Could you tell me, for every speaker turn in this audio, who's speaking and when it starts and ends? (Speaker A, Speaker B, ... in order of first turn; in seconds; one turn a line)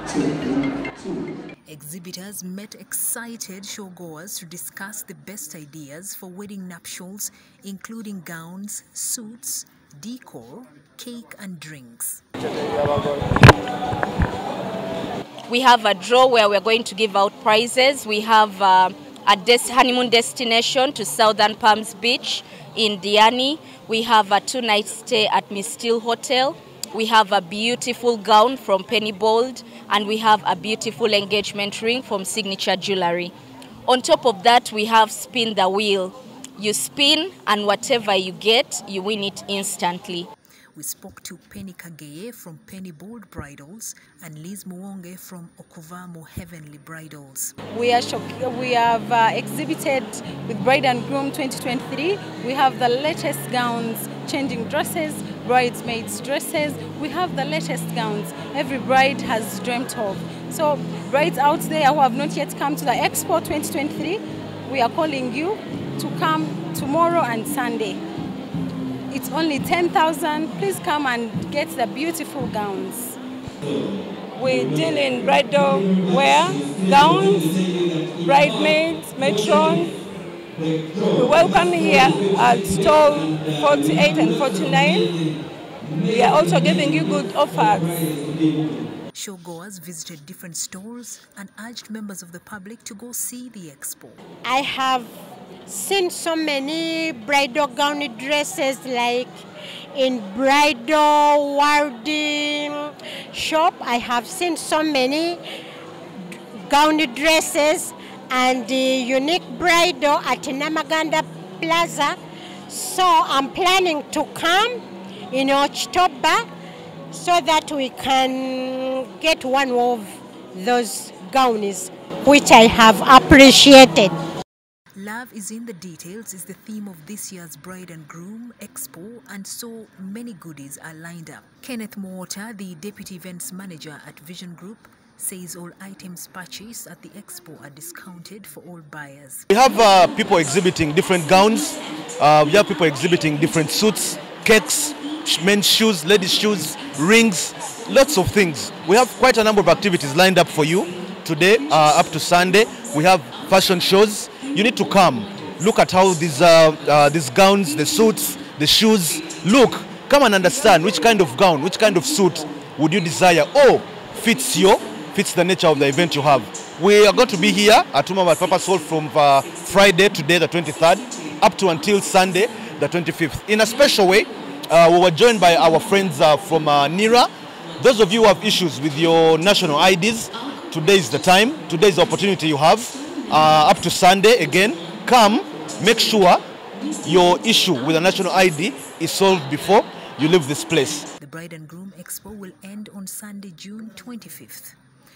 Speaker A: 1.7-12.2
Speaker B: 15.5-33.3
Speaker B: 33.9-40.3
Speaker A: 40.7-47.5
Speaker C: 47.7-68.0
Speaker C: 69.1-73.2
Speaker D: 73.6-73.9
Speaker E: 74.3-77.6
Speaker D: 75.9-79.8
Speaker E: 78.1-79.9
Speaker D: 80.6-85.1
Speaker E: 81.1-85.1
Speaker D: 85.8-87.2
Speaker E: 86.0-88.1
Speaker D: 87.8-88.9
Speaker A: 89.1-94.2
Speaker F: 94.4-95.1
Speaker F: 95.7-99.4
Speaker F: 99.9-105.4
Speaker F: 106.7-112.2
Speaker F: 112.7-114.8
Speaker F: 115.3-116.4
Speaker F: 117.1-124.1
Speaker A: 125.0-139.5
Speaker D: 139.5-186.4
Speaker D: 187.0-191.0
Speaker A: 191.2-194.8